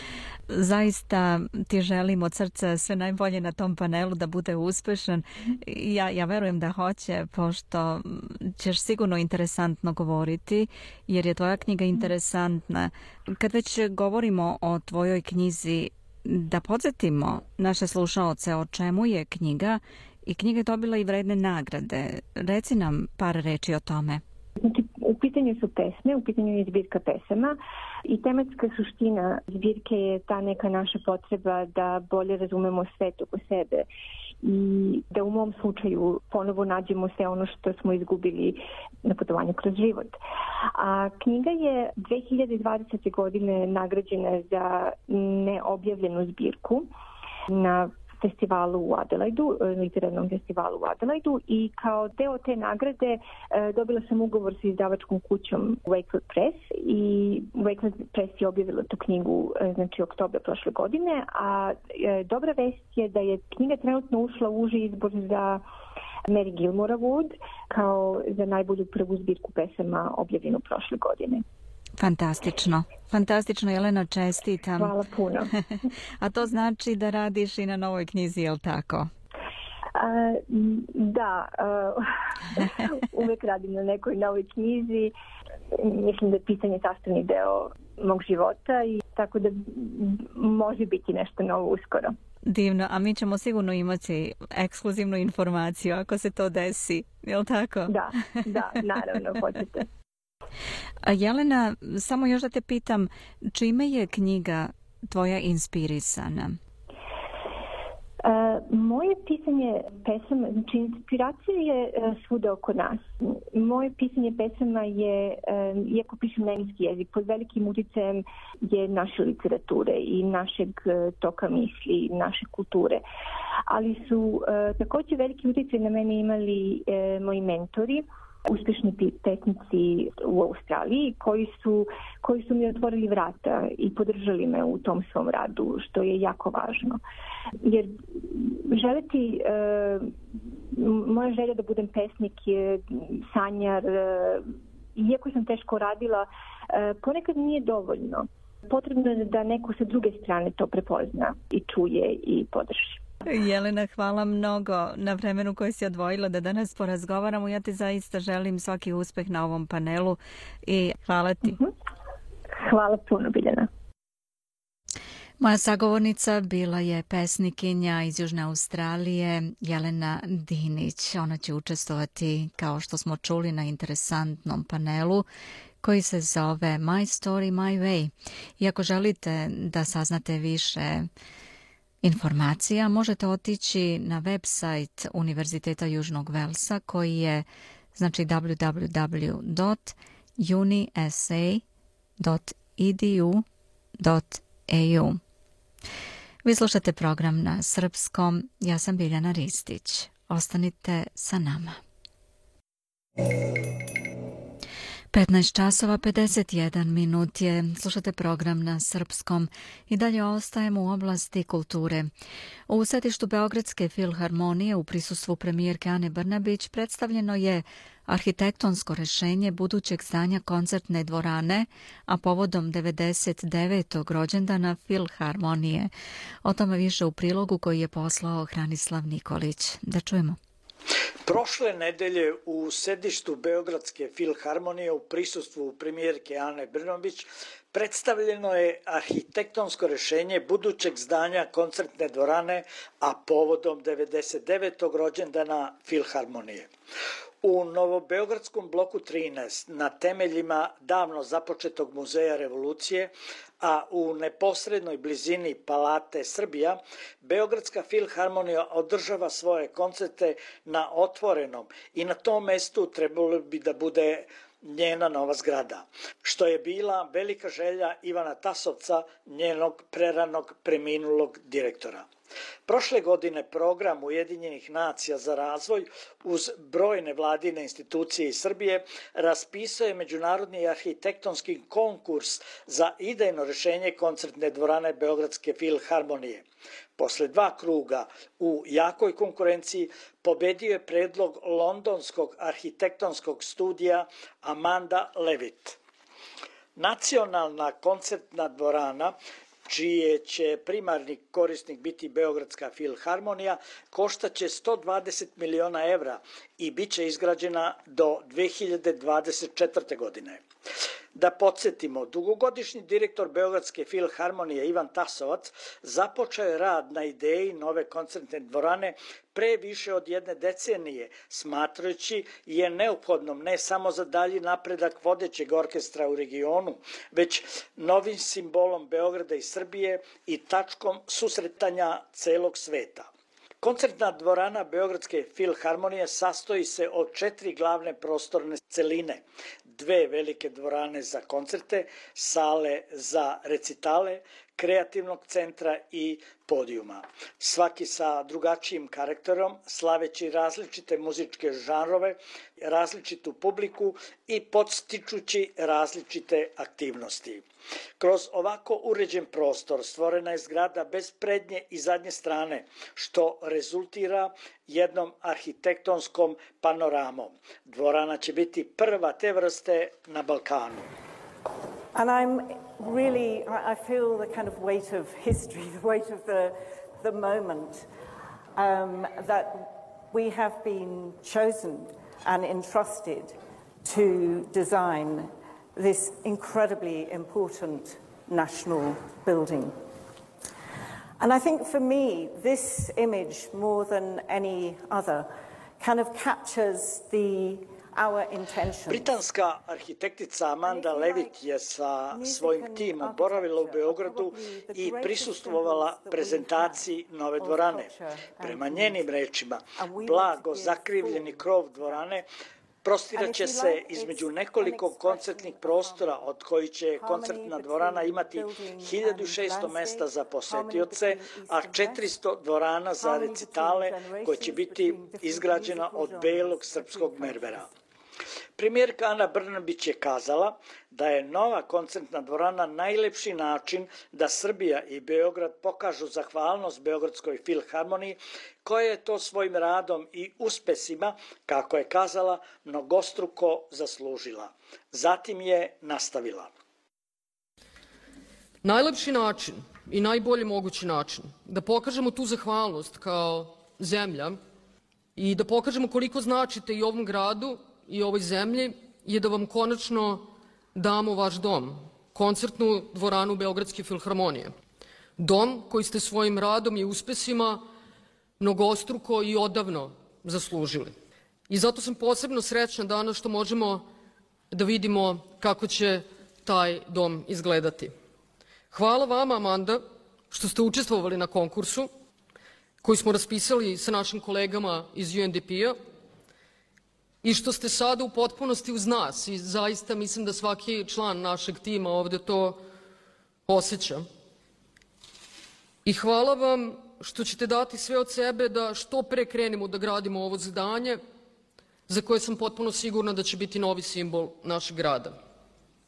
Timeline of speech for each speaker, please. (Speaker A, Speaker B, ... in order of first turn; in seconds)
Speaker A: 0.5-24.2, 72.0-74.9, 76.2-79.1, 92.5-98.0, 101.0-106.6, 153.3-161.6, 165.4-175.2, 175.8-181.1, 182.0-191.6, 192.2-193.4, 194.0-195.2, 196.4-201.8, 205.1-212.1, 212.7-225.9, 226.4-230.4
Speaker B: 24.6-33.9, 34.4-40.2, 40.8-46.9, 47.5-65.6, 66.3-71.4, 74.8-75.5, 80.0-85.1, 85.7-92.2, 97.9-99.9, 108.2-123.0, 123.7-137.0, 137.6-140.2, 140.7-153.0, 161.4-161.7, 162.6-163.7
Speaker C: 231.3-246.7, 247.4-272.1, 272.7-286.4, 287.0-295.8, 296.8-299.1, 299.7-310.4, 311.1-333.1, 333.6-357.4, 358.0-370.9, 398.9-412.2, 412.8-427.7, 428.6-446.5
Speaker D: 371.9-377.9, 378.6-389.8, 391.2-399.2, 400.6-401.4, 402.1-409.2, 409.8-412.1, 413.1-416.3, 416.9-422.2, 423.0-427.7
Speaker E: 448.6-454.4, 455.2-464.6, 465.2-467.7, 468.4-470.9, 471.5-473.9, 474.5-477.9, 478.7-481.9, 482.8-485.8, 487.2-492.6, 493.5-494.1, 495.9-501.0, 501.9-505.2